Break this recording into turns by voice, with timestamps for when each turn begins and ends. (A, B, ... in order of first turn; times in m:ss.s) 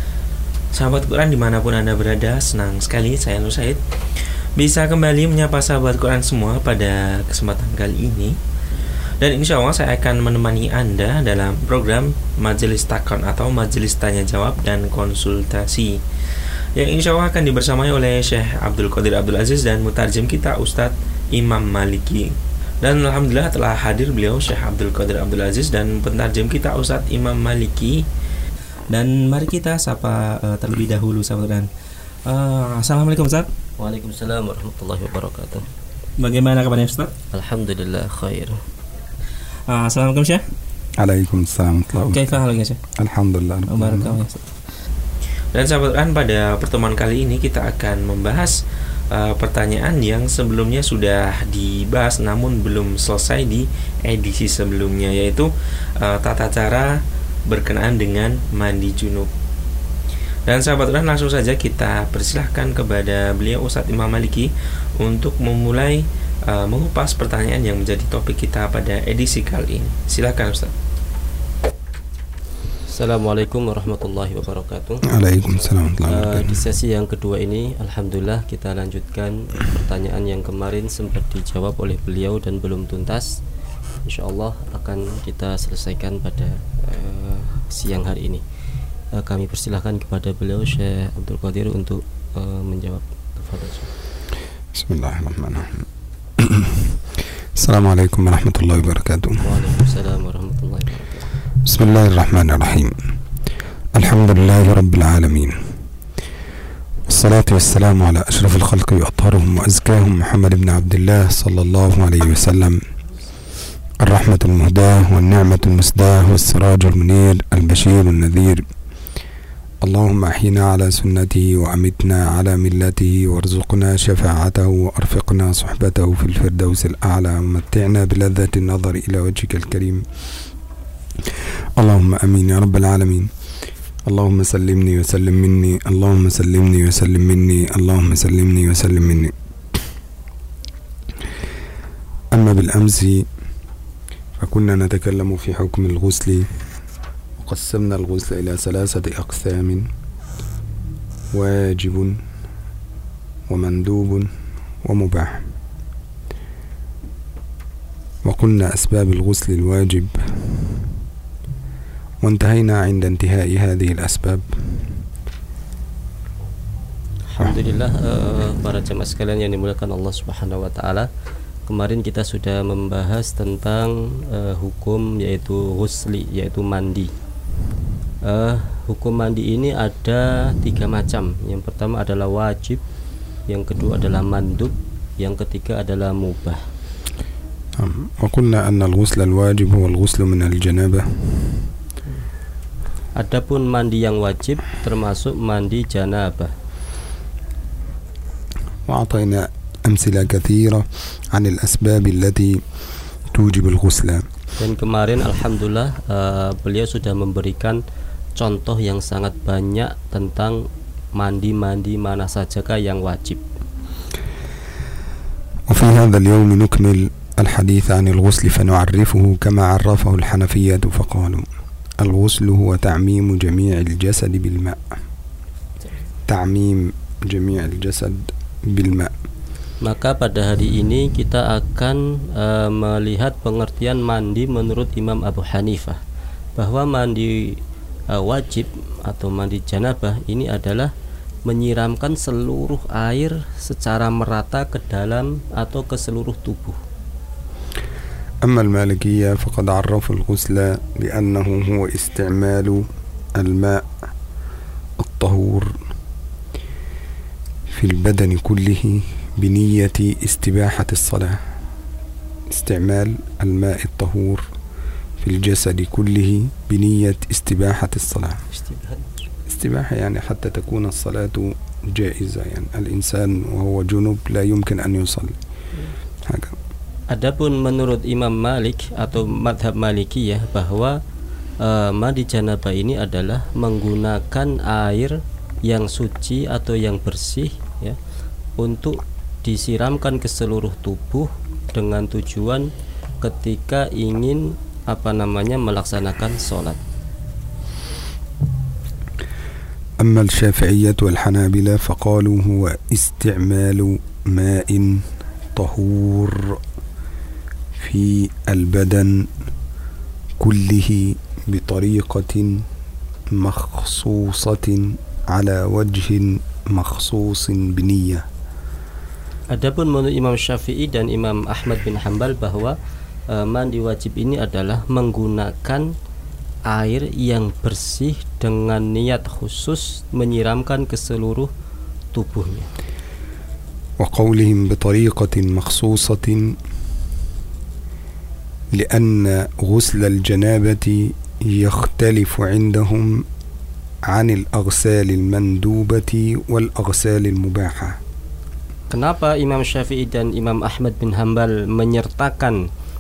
0:00.7-0:08.4 A
0:09.2-0:16.0 A
0:16.8-0:28.0 A
0:28.9-0:31.7 A
0:32.2-0:33.5 A
0:33.8-0:35.7 B
0:36.2-0:37.1 A
0:37.3-0:38.6 B
0:39.7-0:40.5 A
0:41.0-0:42.4 C
0:42.1-0:42.8 A
0:43.0-0:44.2 C
0:43.7-0:44.5 A
0:45.5-0:48.6 A
0:49.1-0:55.5 A
0:56.0-0:57.0 A
0:57.5-0:59.3 A
1:00.5-1:10.7 A
1:12.9-1:15.1 B
1:15.0-1:16.6 C
1:16.1-1:23.4 B
1:24.0-1:28.4 B
1:29.1-1:33.9 B
1:34.7-1:35.8 C
1:36.4-1:37.0 C
1:37.6-1:39.5 C
1:39.4-1:41.3 B
1:41.6-1:43.0 C
1:43.9-1:45.7 C
1:47.1-1:52.8 C
1:54.0-1:58.7 C
1:59.8-2:10.1 C
2:11.3-2:13.3 C
2:14.1-2:19.4 C
2:22.3-2:23.3 C
2:24.4-2:26.5 C
2:27.4-2:29.9 C
2:31.3-2:32.2 C
2:33.5-2:34.3 C
2:34.8-2:35.5 C
2:38.2-2:40.9 C
2:42.2-2:45.0 C
2:47.3-2:51.1 B
2:51.7-2:57.1 B
2:58.2-3:02.8 B
3:03.5-3:06.6 B
3:07.8-3:11.7 C
3:13.2-3:16.5 B
3:18.9-3:22.6 C
3:23.3-3:24.3 C
3:24.6-3:27.8 B
3:28.4-3:33.4 B
3:35.7-3:45.0 C
3:46.3-3:49.1 C
3:49.8-3:56.0 B
3:56.6-4:00.9 B
4:01.5-4:06.8 B
4:08.4-4:13.9 C
4:15.0-4:15.8 C
4:17.7-4:21.4 C
4:22.5-4:24.5 C
4:25.2-4:28.4 C
4:28.5-4:29.1 B
4:29.5-4:35.4 C
4:36.2-4:36.6 C
4:37.1-4:41.0 B
4:41.6-4:48.0 B
4:48.6-4:52.7 B
4:53.2-4:56.8 B
5:00.0-5:06.6 C
5:07.8-5:09.3 C
5:10.4-5:12.6 C
5:13.3-5:18.3 C
5:19.5-5:22.8 B
5:23.3-5:25.9 B
5:26.7-5:31.5 B
5:32.1-5:32.7 B
5:34.0-5:36.6 C
5:38.7-5:43.2 C
5:44.1-5:48.0 C
5:48.9-5:52.6 B